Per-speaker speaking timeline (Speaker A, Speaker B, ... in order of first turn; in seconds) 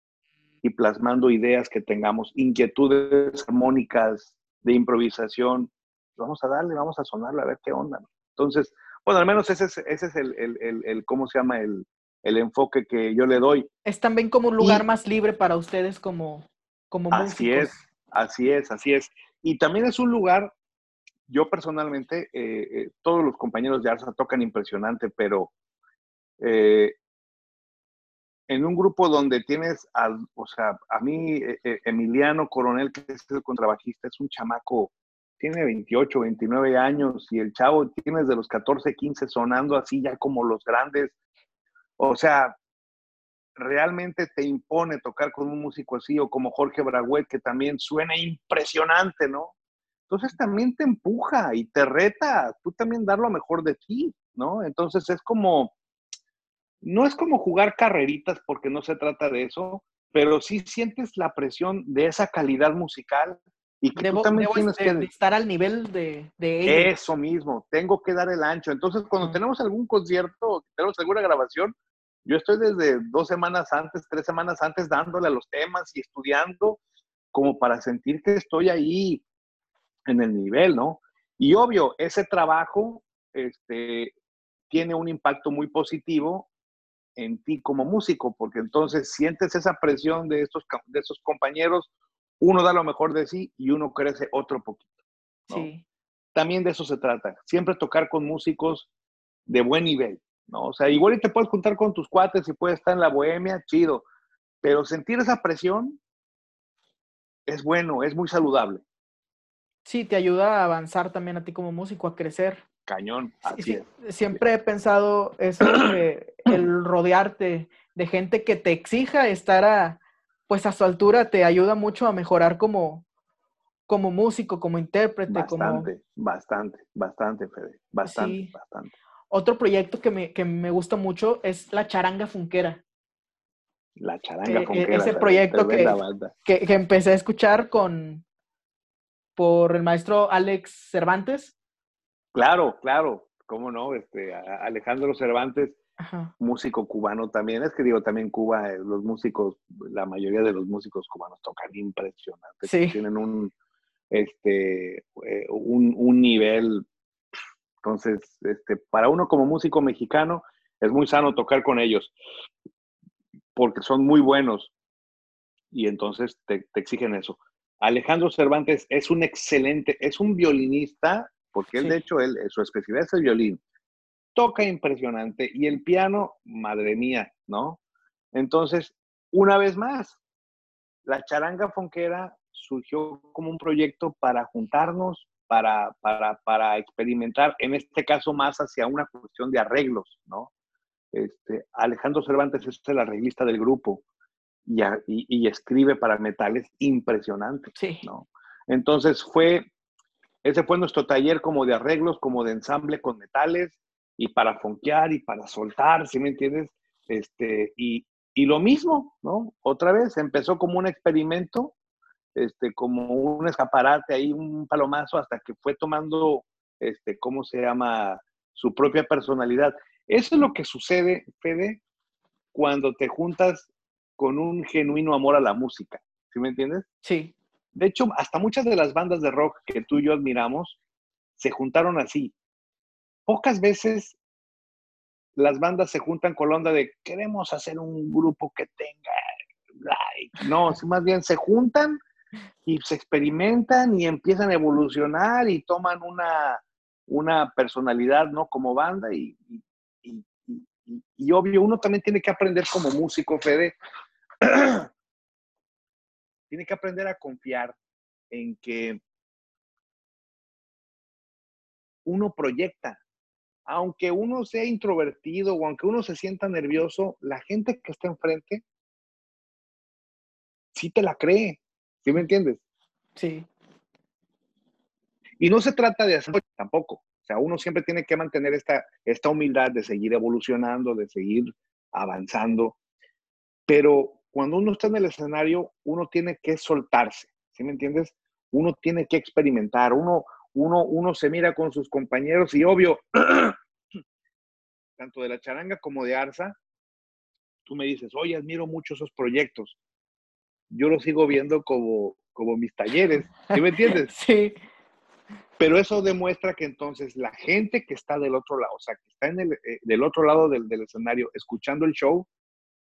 Speaker A: 0.6-13.7, 14.6-14.8, 17.1-20.5, 21.3-25.5, 26.4-27.0, 28.5-41.2, 42.0-42.6, 43.6-49.5, 50.1-55.8, 56.8-65.1, 66.7-71.7, 72.2-76.8, 77.3-79.2, 80.1-84.1, 84.7-86.5, 87.2-94.9, 96.3-98.9, 99.5-104.0, 104.6-106.0, 107.5-108.8, 112.9-114.4, 125.3-128.9, 134.0-136.3, 142.3-145.8, 146.4-153.5, 154.1-156.8, 157.8-162.1, 163.6-164.7, 165.7-173.6, 174.3-177.8, 178.3-180.2, 181.1-190.5, 191.1-194.0, 194.7-199.7, 200.4-211.8, 212.3-221.8, 222.5-226.8, 227.8-230.8, 231.4-232.3, 233.3-234.2, 235.4-239.2, 239.8-242.0, 242.7-253.7, 254.4-254.9, 256.5-257.8, 258.3-259.0, 262.1-263.0, 263.7-268.6, 270.8-272.6, 275.4-282.8, 283.7-293.6, 295.0-296.6, 297.7-299.8, 300.7-304.1, 305.6-312.3
Speaker B: 13.8-17.8, 64.0-66.9, 95.5-95.8, 109.8-112.6, 113.5-123.0, 123.9-125.9, 128.0-128.5, 129.3-132.8, 134.4-138.2, 139.4-141.5, 146.0-146.3, 152.7-153.0, 197.8-198.1, 227.0-227.3, 273.2-273.5, 303.5-304.6